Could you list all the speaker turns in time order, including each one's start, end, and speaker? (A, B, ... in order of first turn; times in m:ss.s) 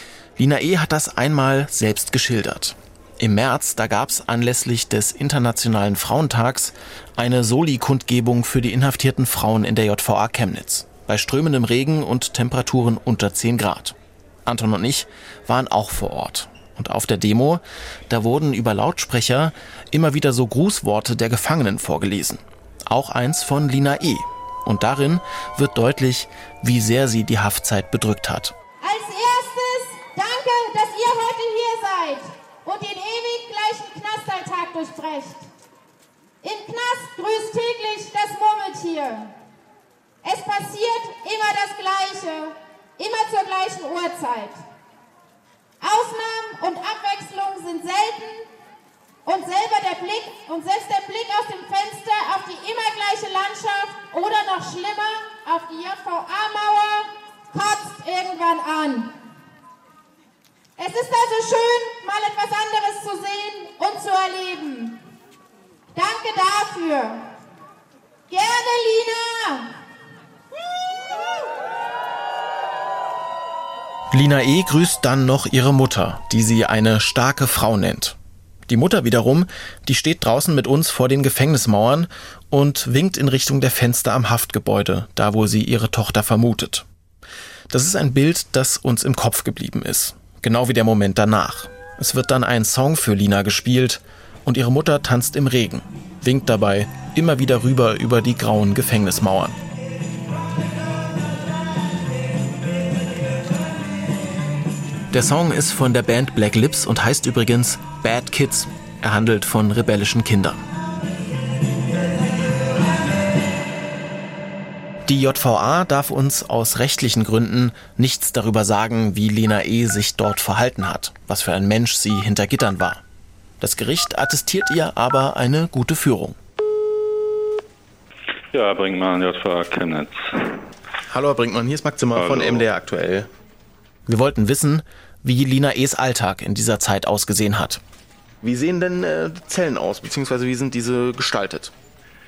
0:00.4-0:28.5 A
0:28.8-0:35.4 B
0:36.4-0:39.3 B
0:40.2-0:44.6 B
0:45.8-0:48.4 B
0:49.2-0:59.1 B
1:00.8-1:05.0 B
1:05.9-1:07.3 B
1:08.3-1:09.7 B
1:14.1-1:18.2 A
1:18.7-1:26.8 A
1:27.7-1:39.6 A
1:45.1-1:50.6 A
1:55.0-2:03.0 A
2:03.6-2:06.4 A
2:08.5-2:10.5 C
2:11.1-2:13.3 A
2:12.2-2:12.6 C
2:14.1-2:17.8 A
2:18.4-2:21.7 A